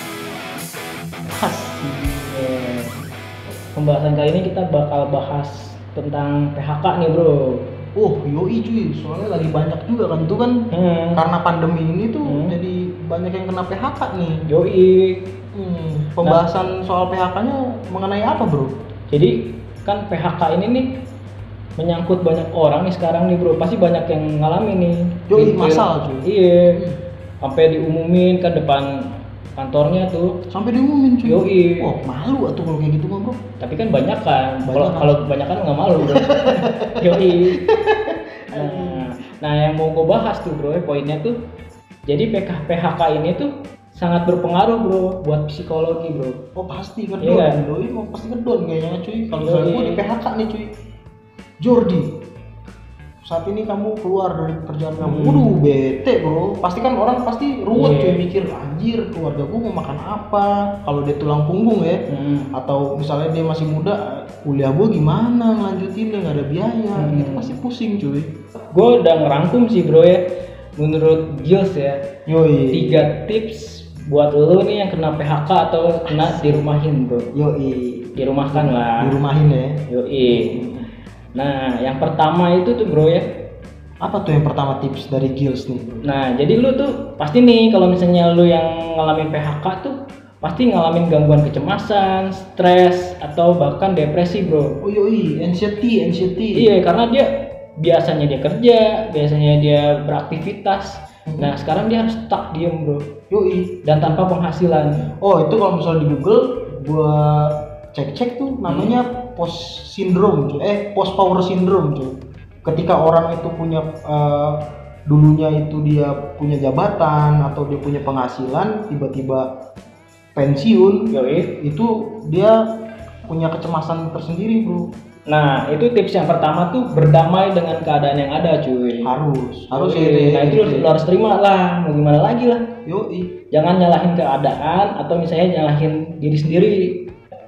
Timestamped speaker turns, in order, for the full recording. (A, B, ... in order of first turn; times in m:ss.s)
0:01.3-0:02.8 A
0:02.3-0:03.0 B
0:03.7-0:07.6 B
0:08.0-0:10.6 A
0:10.7-0:11.2 B
0:11.1-0:14.4 A
0:12.2-0:12.5 B
0:14.5-0:15.2 B
0:15.5-0:18.7 A
0:19.1-0:20.9 B
0:21.8-0:26.8 B
0:25.3-0:27.0 A
0:27.4-0:30.4 B
0:30.5-0:33.4 A
0:31.2-0:31.9 B
0:33.6-0:37.6 B
0:34.6-0:35.2 A
0:36.0-0:39.0 A
0:38.5-0:41.4 B
0:42.1-0:46.4 B
0:46.6-0:50.7 A
0:47.2-0:47.6 B
0:49.4-0:50.0 B
0:51.6-0:52.1 A
0:53.2-1:08.4 A
0:55.0-0:55.6 B
0:57.7-0:58.2 B
1:02.1-1:02.5 B
1:07.0-1:07.6 B
1:08.7-1:10.2 B
1:10.8-1:12.1 B
1:12.2-1:13.1 A
1:12.7-1:17.3 B
1:16.1-1:16.6 A
1:17.3-1:20.9 A
1:18.2-1:19.2 B
1:19.9-1:20.6 B
1:21.3-1:23.2 B
1:24.0-1:26.0 A
1:26.0-1:34.8 B
1:34.8-1:36.7 A
1:36.6-1:43.2 B
1:41.3-1:41.5 A
1:43.3-1:44.0 A
1:43.8-1:45.1 B
1:45.2-1:59.5 A
2:00.3-2:02.6 A
2:01.1-2:01.5 B
2:03.2-2:04.9 A
2:05.3-2:09.1 B
2:09.0-2:10.9 A
2:09.7-2:12.7 B
2:12.8-2:13.4 A
2:13.5-2:17.1 B